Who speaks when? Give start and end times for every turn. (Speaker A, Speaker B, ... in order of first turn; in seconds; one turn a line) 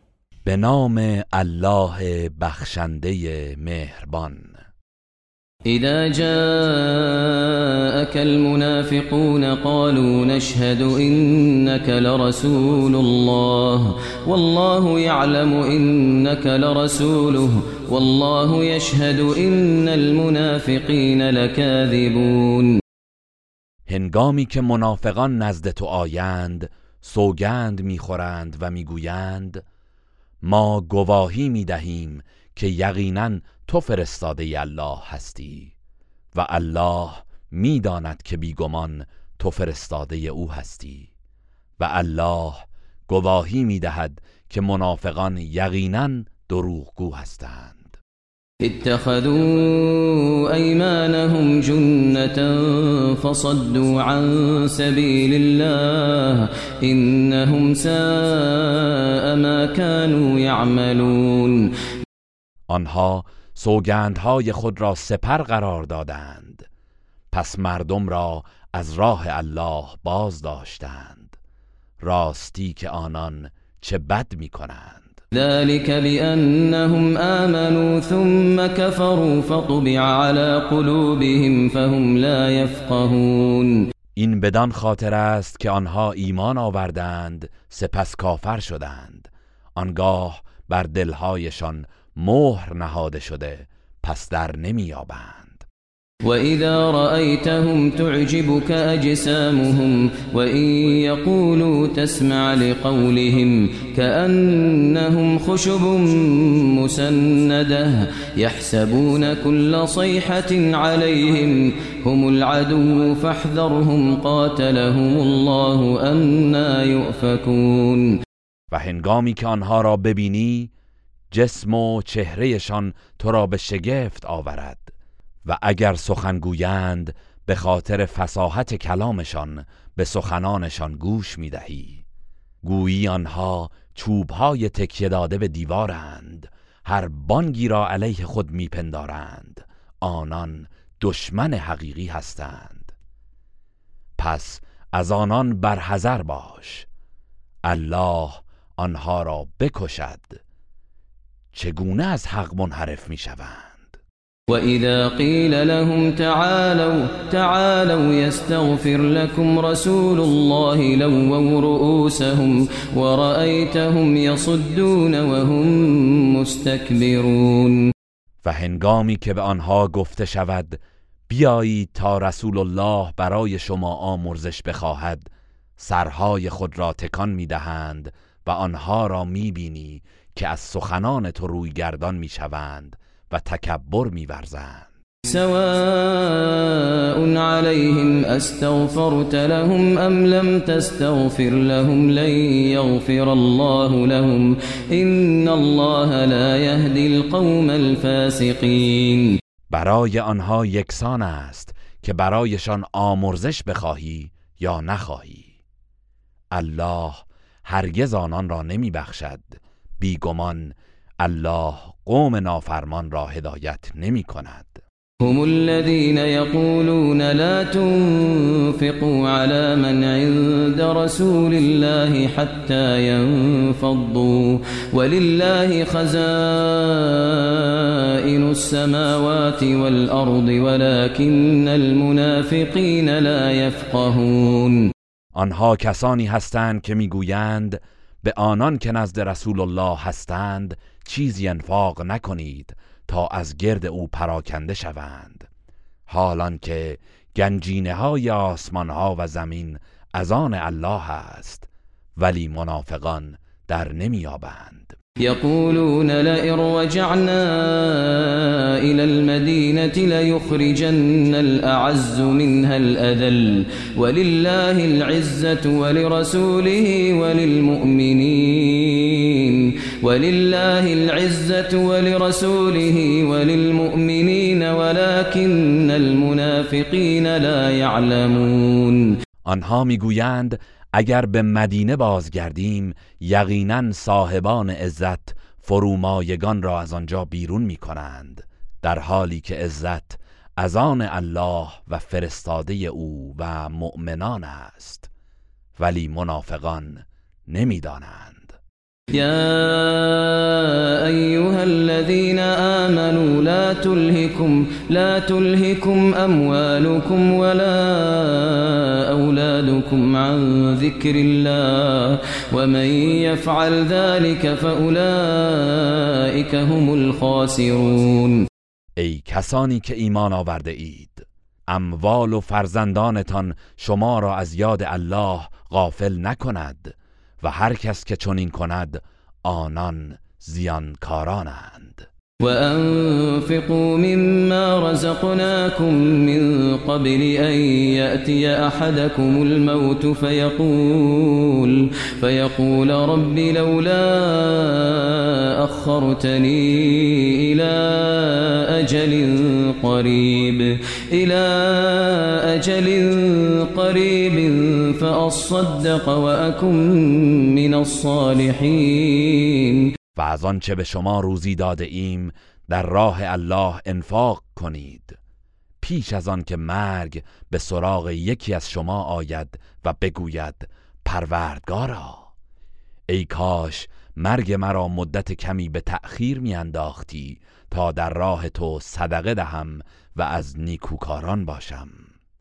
Speaker A: 0.5-4.5
Speaker B: 5.7-22.7
Speaker A: 23.9-29.6
Speaker A: 30.4-35.7
Speaker A: 36.3-41.1
Speaker A: 41.8-48.0
Speaker B: 48.6-61.7
Speaker A: 62.7-66.7
Speaker A: 67.3-71.3
Speaker A: 72.0-75.2
Speaker B: 75.3-83.8
Speaker A: 84.2-95.7
Speaker B: 96.2-118.1
Speaker A: 118.7-120.7
Speaker A: 121.3-124.9
Speaker A: 125.4-132.0
Speaker A: 132.6-142.9
Speaker A: 144.2-146.9
Speaker A: 147.7-150.4
Speaker A: 151.5-154.0
Speaker B: 154.5-167.8
Speaker A: 168.4-184.9
Speaker B: 185.2-199.3
Speaker A: 199.7-205.5
Speaker A: 206.5-214.8
Speaker B: 215.2-234.8
Speaker A: 235.3-245.5
Speaker A: 246.1-255.0
Speaker B: 255.2-279.1
Speaker A: 279.4-295.1
Speaker A: 295.8-298.6
Speaker B: 299.1-318.4
Speaker A: 319.0-332.1
Speaker B: 332.4-359.9
Speaker A: 360.1-365.2
Speaker A: 365.8-372.3
Speaker A: 373.1-382.1